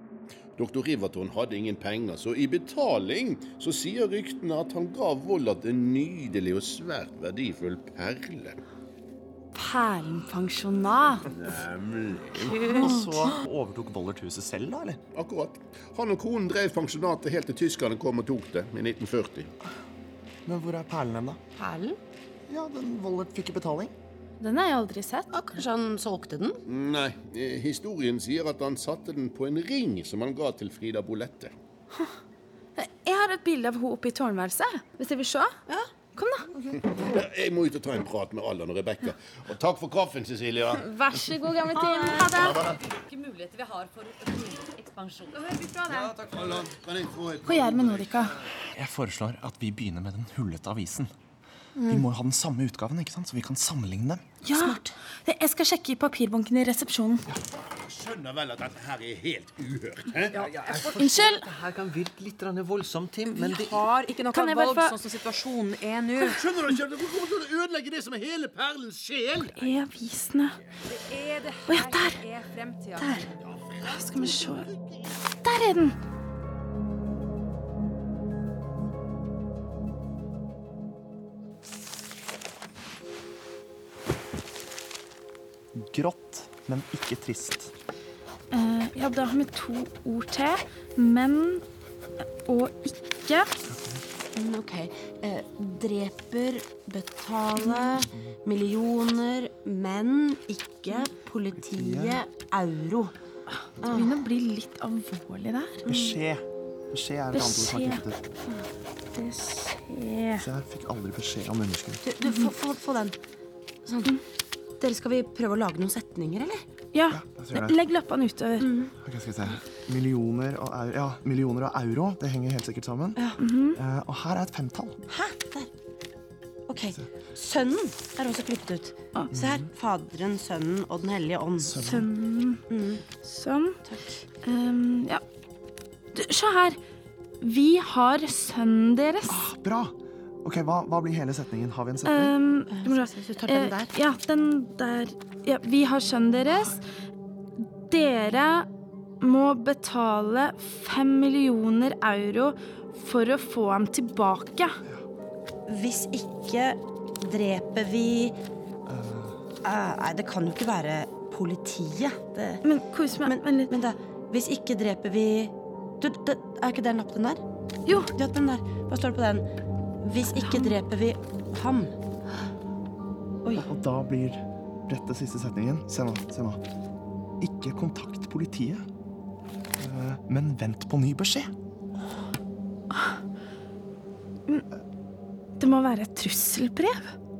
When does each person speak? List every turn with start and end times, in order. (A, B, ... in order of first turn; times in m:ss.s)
0:00.6-0:08.6 A
0:09.5-0:11.3 B
0:11.3-0:12.8 A
0:12.4-0:13.0 B
0:12.6-0:15.0 C
0:15.2-0:19.5 A
0:20.5-0:21.4 C
0:21.6-0:22.0 D
0:22.5-0:23.9 C
0:24.4-0:25.3 B
0:25.3-0:26.6 D
0:26.7-0:31.5 A
0:32.8-0:35.5 B
0:36.2-0:36.5 B
0:36.8-0:40.9 A
0:40.8-0:42.7 B
0:41.7-0:46.1 E
0:42.4-0:42.8 A
0:46.1-0:48.5 A
0:47.5-0:48.4 B
0:48.7-0:51.1 C
0:51.8-0:52.0 D
0:51.9-0:54.3 C
0:54.4-0:57.2 B
0:54.5-0:54.9 D
0:57.6-1:00.4 A
1:00.3-1:03.8 F
1:00.4-1:01.1 G
1:01.0-1:01.5 B
1:03.3-1:06.4 G
1:04.3-1:05.0 B
1:06.2-1:09.6 A
1:09.5-1:10.6 B
1:10.9-1:13.3 G
1:11.7-1:12.2 B
1:13.0-1:13.3 B
1:13.4-1:15.0 A
1:13.8-1:14.7 B
1:15.4-1:16.0 B
1:25.7-1:27.7 C
1:28.5-1:31.6 B
1:32.4-1:33.5 B
1:33.7-1:34.0 C
1:34.4-1:43.1 D
1:41.6-1:42.2 C
1:43.7-1:45.9 B
1:43.8-1:44.2 D
1:45.9-1:48.2 C
1:45.9-1:46.2 D
1:47.3-1:48.0 B
1:49.2-1:50.5 B
1:50.4-1:52.0 C
1:52.0-1:53.2 D
1:52.2-1:52.5 B
1:53.8-1:54.2 D
1:54.8-1:56.6 D
1:56.9-1:58.7 B
1:57.1-1:57.8 C
1:58.6-1:58.9 D
1:59.0-2:03.2 C
2:03.4-2:03.8 B
2:03.7-2:05.0 C
2:05.1-2:05.7 D
2:06.7-2:11.8 D
2:09.3-2:09.7 C
2:11.6-2:12.1 C
2:11.8-2:12.6 B
2:12.7-2:13.0 D
2:13.2-2:13.8 B
2:13.8-2:14.2 D
2:14.4-2:15.2 B
2:16.1-2:16.8 B
2:17.4-2:19.4 B
2:19.3-2:22.4 C
2:22.1-2:26.8 B
2:22.7-2:23.9 D
2:27.9-2:28.7 B
2:29.2-2:34.8 B
2:35.7-2:38.4 D
2:38.9-2:39.4 C
2:39.6-2:42.6 D
2:42.6-2:43.8 B
2:43.2-2:47.4 D
2:48.0-2:49.5 D
2:50.0-2:51.9 D
2:50.4-2:50.7 B
2:53.6-2:56.6 C
2:57.4-2:58.8 C
2:59.8-3:01.5 C
3:05.6-3:07.1 B